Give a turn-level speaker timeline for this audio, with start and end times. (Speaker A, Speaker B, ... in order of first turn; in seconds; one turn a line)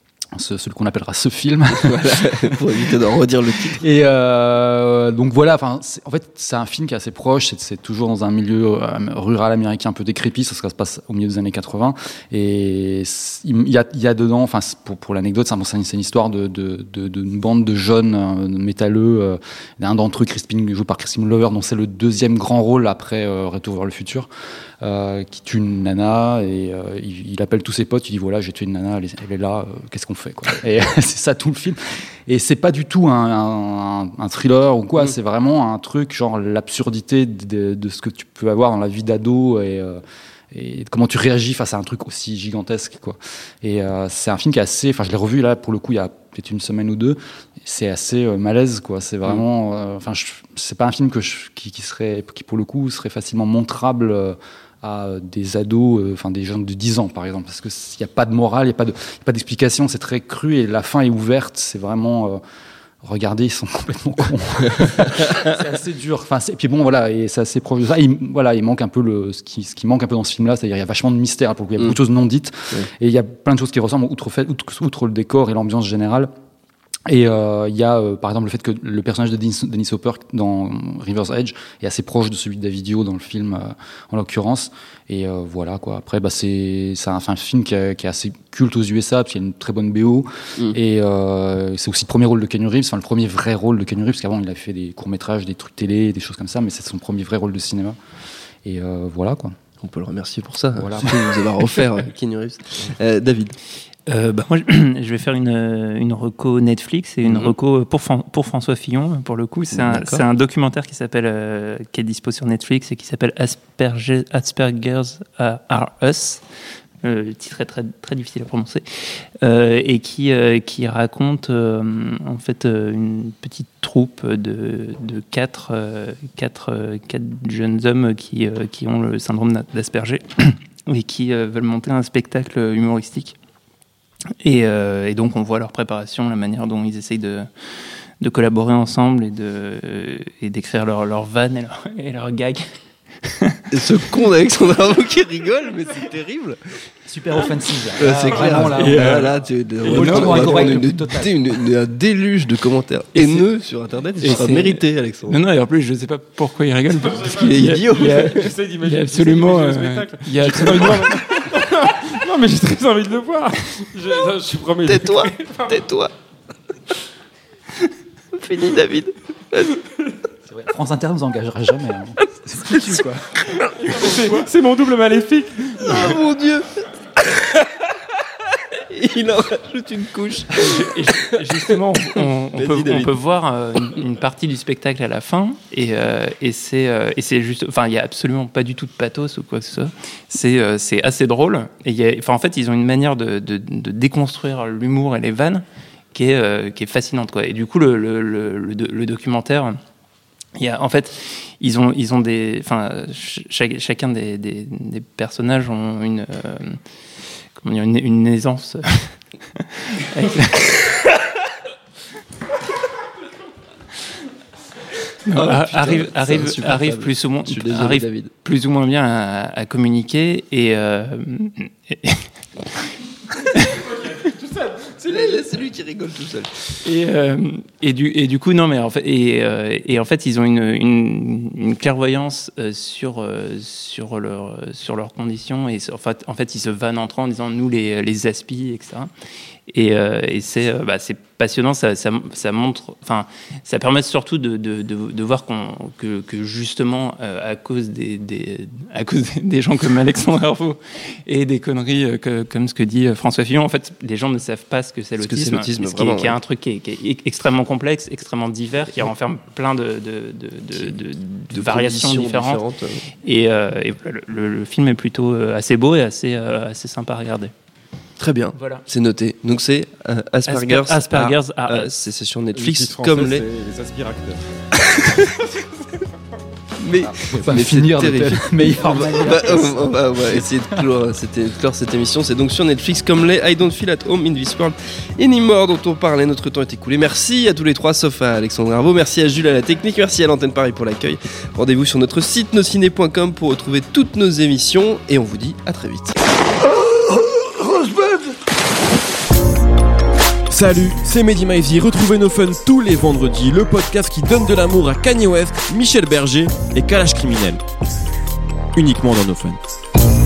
Speaker A: 0.3-2.8
Speaker B: 1.8-3.8
Speaker A: 3.8-24.3
Speaker A: 24.8-62.4
Speaker A: 63.0-76.3
Speaker A: 77.1-98.0
Speaker A: 98.6-99.5
Speaker B: 99.8-103.5
Speaker A: 100.8-101.3
Speaker C: 104.1-116.4
Speaker B: 107.2-107.5
Speaker B: 109.7-110.2
Speaker C: 117.0-133.4
Speaker C: 134.4-137.5
Speaker C: 138.2-142.7
Speaker C: 143.2-143.6
Speaker B: 143.7-146.6
Speaker A: 147.1-151.3
Speaker B: 148.0-155.4
Speaker D: 148.8-149.3
Speaker C: 149.9-150.5
Speaker C: 153.2-153.5
Speaker C: 154.2-161.5
Speaker B: 157.3-158.5
Speaker D: 157.6-165.9
Speaker B: 164.9-166.1
Speaker B: 168.3-169.8
Speaker A: 170.5-173.2
Speaker B: 172.8-173.1
Speaker D: 173.9-176.2
Speaker B: 175.8-177.7
Speaker B: 178.9-181.4
Speaker C: 180.5-199.8
Speaker B: 182.2-183.2
Speaker C: 200.6-206.8
Speaker C: 207.6-211.0
Speaker C: 215.3-222.2
Speaker B: 215.3-218.3
Speaker C: 223.4-223.8
Speaker B: 225.0-226.7
Speaker C: 226.8-239.1
Speaker C: 239.7-262.6
Speaker B: 255.2-256.4
Speaker B: 261.5-263.0
Speaker C: 263.2-267.5
Speaker B: 268.2-273.4
Speaker C: 268.5-268.9
Speaker C: 270.5-271.9
Speaker D: 272.6-274.4
Speaker B: 274.7-275.4
Speaker B: 276.8-296.1
Speaker A: 277.4-279.7
Speaker C: 278.8-280.0
Speaker E: 296.7-298.4
Speaker E: 300.5-307.6
Speaker E: 308.8-309.6